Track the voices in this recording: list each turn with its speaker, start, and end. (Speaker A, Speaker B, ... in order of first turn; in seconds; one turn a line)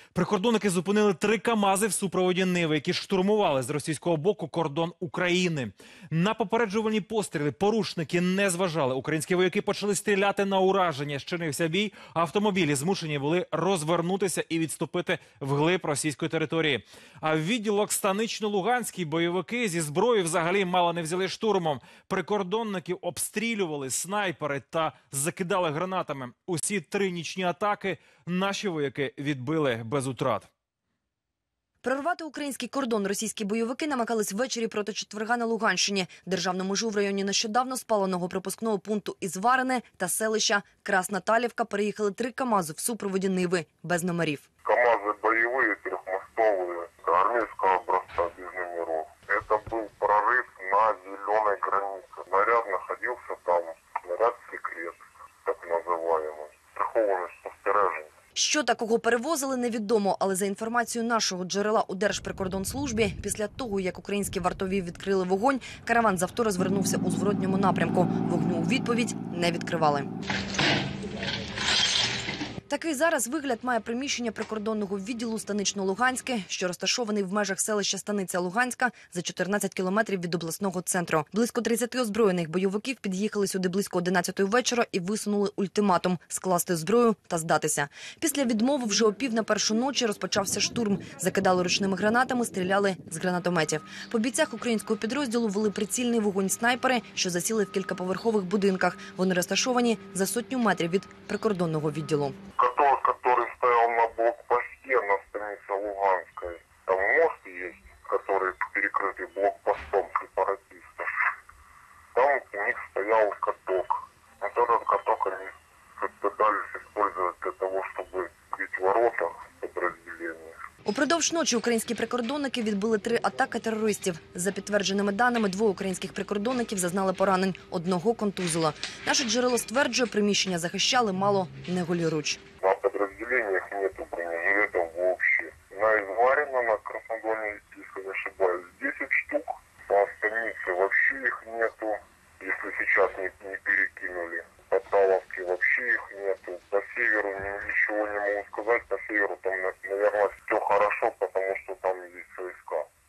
Speaker A: 0.1-30.5
Speaker B: 31.8-44.4
Speaker C: 44.6-58.1
Speaker B: 58.4-70.1
Speaker B: 72.7-102.4
Speaker C: 102.6-111.1
Speaker C: 112.1-120.6
Speaker B: 120.8-132.4
Speaker C: 132.6-152.9